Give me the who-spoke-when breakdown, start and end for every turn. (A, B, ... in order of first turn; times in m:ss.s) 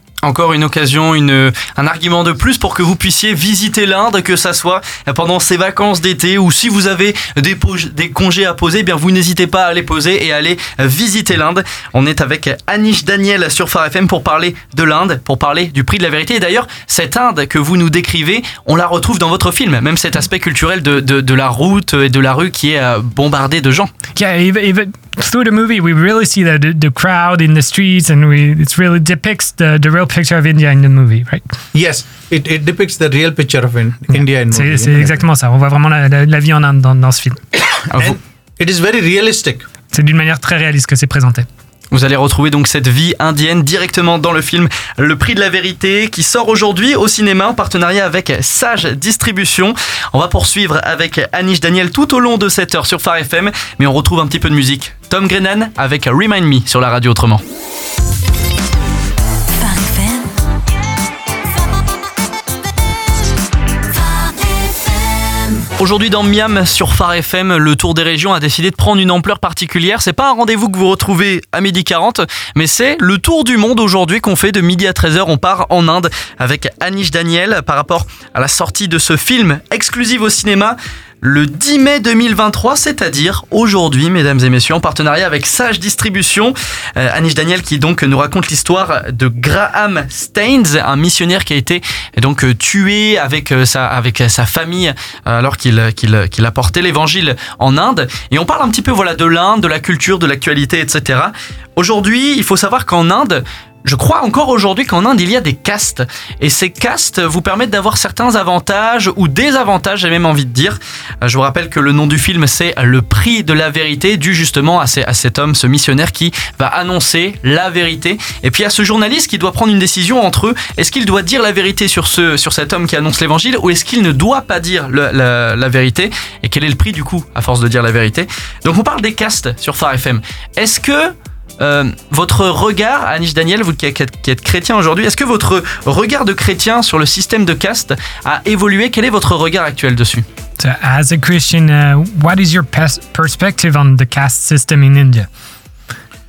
0:00.2-0:23.9 A
0:24.2-0:31.4 B
0:31.7-0:35.2 C
0:34.1-0:37.4 B
0:37.9-0:38.2 A
0:38.0-0:39.7 C
0:39.9-0:41.5 B
0:41.9-0:57.4 A
0:59.6-1:00.4 D
1:03.9-1:05.7 D
1:05.8-2:20.2 A
2:20.6-2:25.3 B